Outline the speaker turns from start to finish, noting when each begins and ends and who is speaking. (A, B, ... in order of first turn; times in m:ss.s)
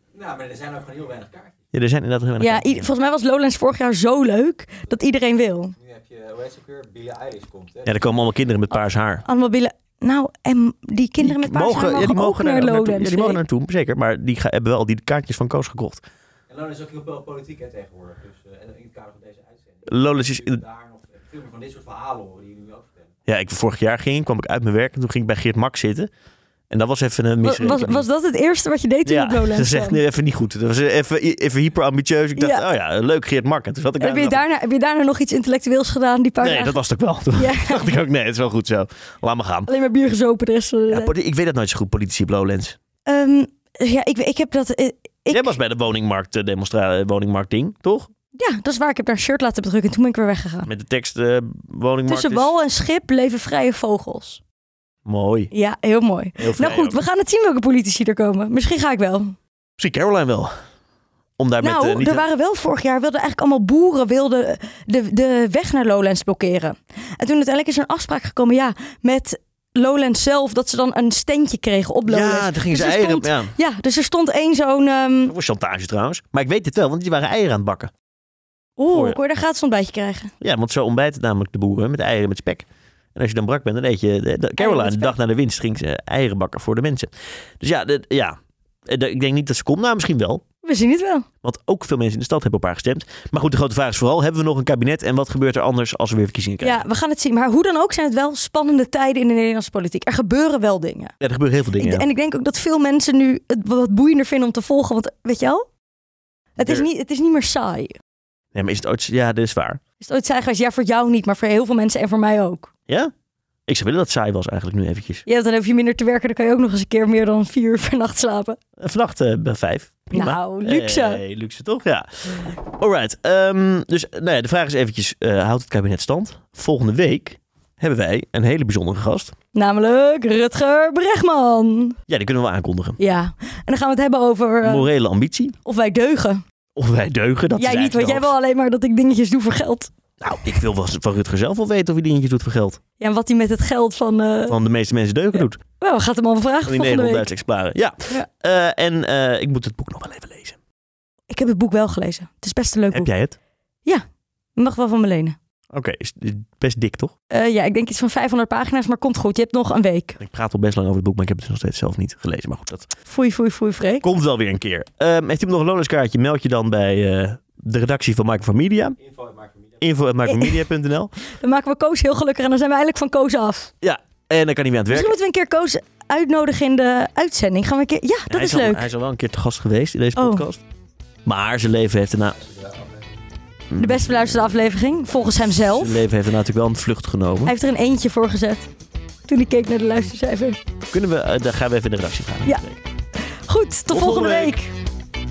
0:00.4-0:01.3 A
0:01.7-0:02.8 B
0:02.4-0:05.7 C
0:06.3-0:07.6 A
0:07.8-0:09.2 B
0:09.2-0:13.4 C
0:11.2-0:16.0 B
0:16.6-0:18.1 A
0:18.7-0:19.1 A
0:19.9-0:20.6 B
0:21.3-0:22.8 A
0:23.3-0:26.1 B
0:26.7-0:28.1 B
0:27.4-0:30.0 C
0:29.0-0:34.4 B
0:32.4-0:32.6 C
0:34.0-0:36.8 C
0:36.4-0:39.7 B
0:37.4-0:37.9 C
0:39.7-0:41.1 C
0:40.9-0:42.8 B
0:43.1-0:45.6 C
0:45.3-0:48.1 B
0:48.3-0:50.7 C
0:50.7-0:52.5 B
0:52.1-0:54.4 C
0:55.0-0:55.5 B
0:55.5-0:59.4 C
0:56.4-0:57.0 B
0:59.8-1:00.5 B
1:01.4-1:02.2 B
1:01.6-1:15.3 C
1:12.1-1:13.5 B
1:15.2-1:17.9 B
1:18.8-1:20.3 C
1:18.9-1:19.2 B
1:20.4-1:30.4 B
1:24.6-1:25.1 C
1:30.6-1:31.2 C
1:31.4-1:36.8 B
1:36.6-1:41.1 C
1:41.2-1:42.0 B
1:41.8-1:45.6 C
1:46.6-1:47.9 C
1:48.5-1:49.8 B
1:50.0-1:52.7 C
1:53.7-1:55.2 B
1:55.2-1:58.6 C
1:58.8-2:09.3 B
2:00.1-2:01.2 C
2:09.5-2:12.0 C
2:12.1-2:13.0 B
2:13.0-2:14.9 C
2:14.6-2:15.6 B
2:15.6-2:16.4 C
2:16.8-2:18.3 B
2:17.6-2:19.9 C
2:20.2-2:22.8 B
2:23.0-2:24.6 C
2:24.5-2:25.6 B
2:25.8-2:27.3 C
2:26.6-2:30.6 B
2:31.3-2:33.1 C
2:32.9-2:33.4 B
2:34.6-2:35.4 C
2:35.7-2:37.1 B
2:37.3-2:40.2 C
2:40.2-2:42.9 B
2:43.0-2:44.0 C
2:44.0-2:49.0 B
2:49.8-2:51.1 B
2:50.2-2:50.6 C
2:51.3-2:53.7 C
2:53.8-2:55.1 B
2:54.9-2:58.8 C
2:58.3-3:00.6 B
3:00.2-3:00.4 C
3:01.2-3:02.4 B
3:03.7-3:04.1 B
3:03.7-3:06.0 C
3:05.7-3:07.5 B
3:07.4-3:08.7 C
3:09.3-3:10.6 C
3:10.9-3:12.8 B
3:13.5-3:14.7 C
3:13.9-3:14.5 B